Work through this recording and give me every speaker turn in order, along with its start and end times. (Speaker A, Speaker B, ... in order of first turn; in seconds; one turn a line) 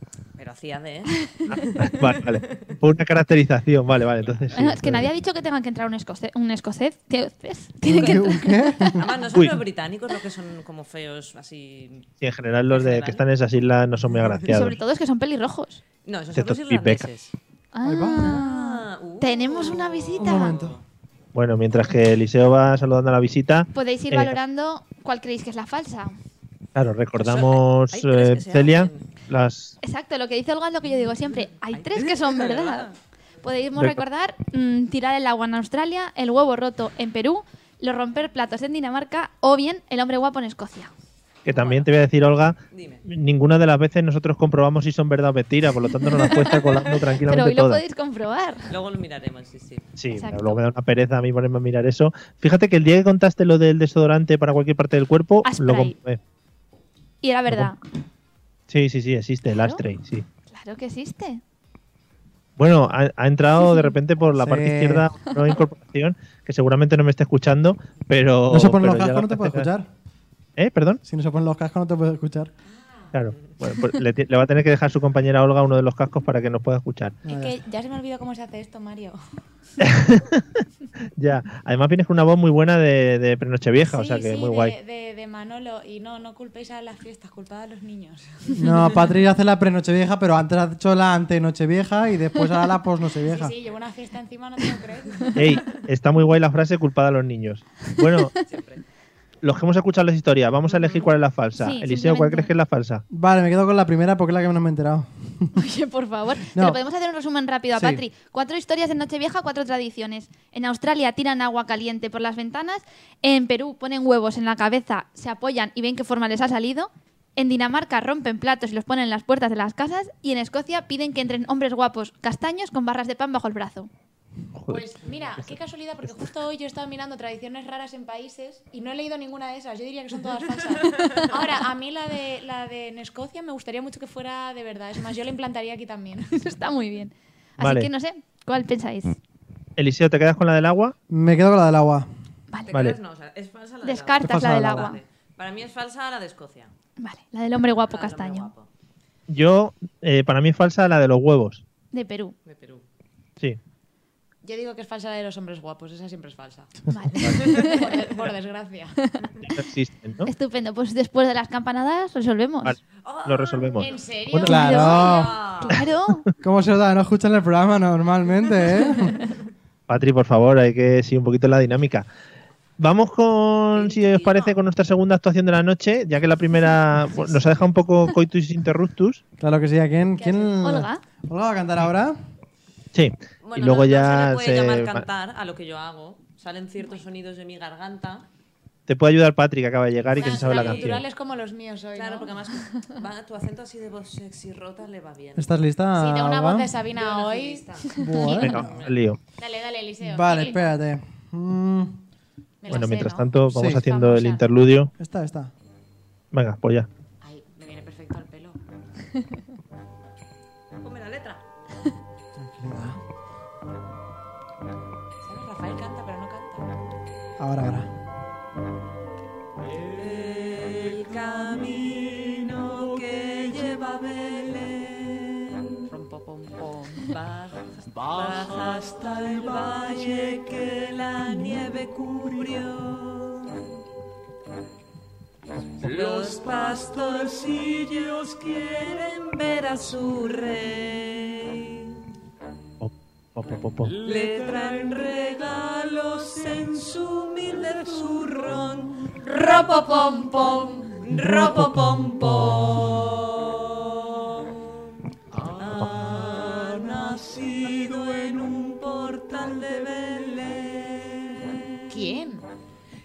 Speaker A: 0.4-2.8
Speaker B: 1.3-1.7
Speaker C: 1.5-5.1
Speaker A: 4.2-4.5
Speaker B: 4.5-9.0
Speaker D: 7.8-9.1
Speaker A: 8.9-12.1
Speaker C: 9.3-9.6
Speaker C: 12.2-14.8
Speaker A: 12.7-13.2
Speaker B: 14.5-15.8
Speaker A: 16.1-17.3
Speaker C: 16.3-17.1
Speaker B: 17.7-20.6
Speaker D: 17.8-18.4
Speaker A: 18.2-20.8
Speaker D: 20.2-20.8
Speaker C: 21.4-24.4
Speaker B: 23.7-26.1
Speaker C: 26.8-29.8
Speaker A: 27.2-29.1
Speaker B: 29.8-32.9
Speaker A: 31.7-33.0
Speaker B: 33.4-40.9
Speaker C: 41.5-47.8
Speaker A: 41.5-41.9
Speaker A: 42.7-43.0
Speaker B: 46.1-48.7
Speaker A: 48.7-49.9
Speaker C: 50.0-56.2
Speaker B: 50.1-50.6
Speaker B: 55.4-56.0
Speaker B: 57.2-57.8
Speaker C: 58.7-60.2
Speaker B: 59.5-59.8
Speaker B: 60.5-61.4
Speaker C: 62.6-69.7
Speaker B: 63.6-63.9
Speaker D: 64.3-65.1
Speaker D: 68.5-69.9
Speaker C: 70.6-71.0
Speaker D: 71.0-72.5
Speaker E: 72.7-73.1
Speaker C: 73.1-77.2
Speaker E: 77.2-79.2
Speaker D: 77.3-77.6
Speaker C: 79.8-80.6
Speaker C: 81.2-84.7
Speaker E: 83.8-88.6
Speaker D: 88.5-93.5
Speaker E: 93.2-95.8
Speaker C: 95.3-98.3
Speaker A: 98.4-98.8
Speaker C: 99.4-103.0
Speaker A: 100.7-101.1
Speaker B: 101.6-102.5
Speaker D: 103.1-105.6
Speaker B: 105.6-123.9
Speaker D: 106.5-106.8
Speaker D: 107.7-108.0
Speaker C: 124.5-124.9
Speaker E: 124.7-136.4
Speaker B: 136.3-139.2
Speaker C: 137.6-137.9
Speaker C: 139.8-140.9
Speaker D: 141.1-142.1
Speaker A: 142.7-146.7
Speaker C: 142.7-143.0
Speaker B: 143.8-145.0
Speaker D: 144.2-145.0
Speaker B: 147.0-148.5
Speaker A: 147.8-148.7
Speaker C: 149.3-151.6
Speaker B: 151.9-152.3
Speaker A: 152.4-152.8
Speaker E: 154.4-156.7
Speaker B: 156.9-157.9
Speaker C: 157.2-157.5
Speaker E: 157.3-159.0
Speaker A: 157.4-157.7
Speaker B: 159.0-159.3
Speaker C: 159.5-160.3
Speaker B: 160.2-162.8
Speaker C: 162.7-164.6
Speaker A: 163.0-164.0
Speaker E: 163.8-165.3
Speaker D: 164.4-165.3
Speaker B: 164.4-166.2
Speaker A: 164.8-165.8
Speaker D: 166.4-169.2
Speaker C: 169.9-172.1
Speaker C: 172.8-179.2
Speaker A: 173.7-174.6
Speaker A: 177.3-177.6
Speaker D: 179.4-182.2
Speaker E: 180.2-180.5
Speaker B: 180.6-181.0
Speaker C: 182.9-185.1
Speaker A: 183.4-188.2
Speaker C: 188.9-191.0
Speaker A: 190.2-191.0
Speaker E: 190.2-192.5
Speaker A: 191.9-195.5
Speaker D: 195.4-196.7
Speaker E: 196.0-197.7
Speaker A: 196.9-199.0
Speaker D: 198.0-198.8
Speaker B: 198.1-198.5
Speaker C: 198.4-199.2
Speaker E: 199.4-200.7
Speaker D: 200.0-201.9
Speaker E: 202.6-204.5
Speaker C: 202.7-204.9
Speaker D: 203.5-203.8
Speaker D: 205.0-205.5
Speaker C: 206.3-206.9
Speaker E: 207.2-208.6
Speaker A: 210.8-211.4
Speaker D: 212.4-213.0
Speaker E: 215.2-216.7
Speaker D: 217.4-217.9
Speaker A: 219.8-225.8
Speaker E: 225.9-227.1
Speaker A: 227.0-233.7
Speaker A: 235.8-242.0
Speaker C: 242.8-244.0
Speaker A: 243.9-261.8
Speaker E: 261.9-262.4